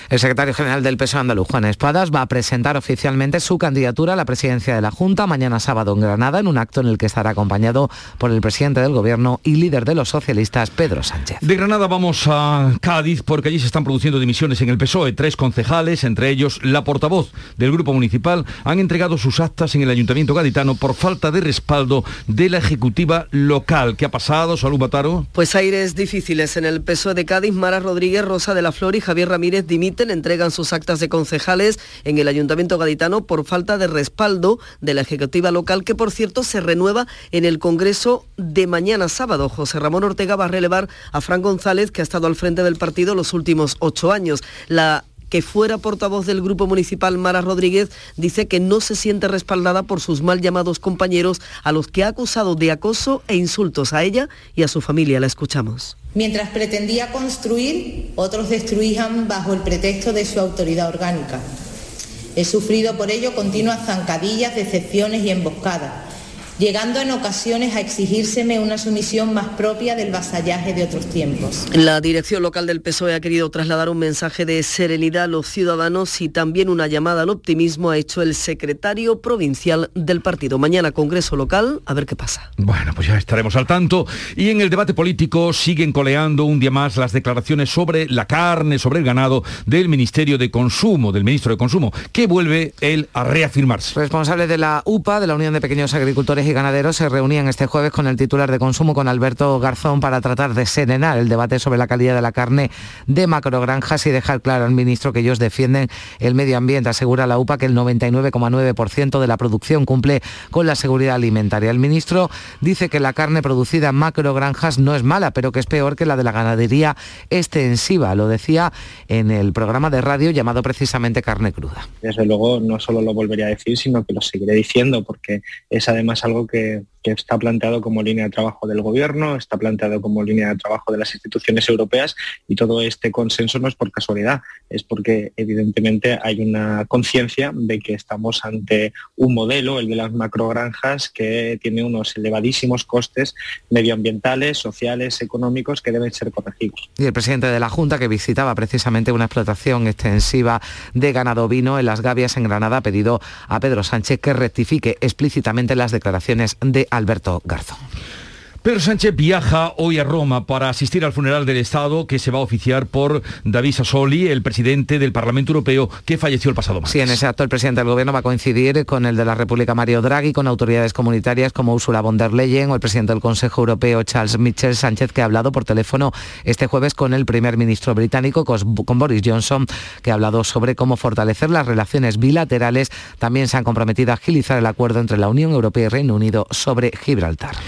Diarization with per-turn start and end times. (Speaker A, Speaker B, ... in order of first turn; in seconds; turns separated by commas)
Speaker A: 0.1-11.4, Speaker B: 11.4-25.3, Speaker C: 25.4-56.0, Speaker D: 56.2-61.4, Speaker D: 62.4-66.0, Speaker D: 66.6-71.6, Speaker C: 71.7-82.5, Speaker B: 82.6-93.9, Speaker A: 93.9-121.9, Speaker E: 122.0-146.8, Speaker A: 147.0-157.8, Speaker B: 158.6-167.2, Speaker A: 166.9-187.6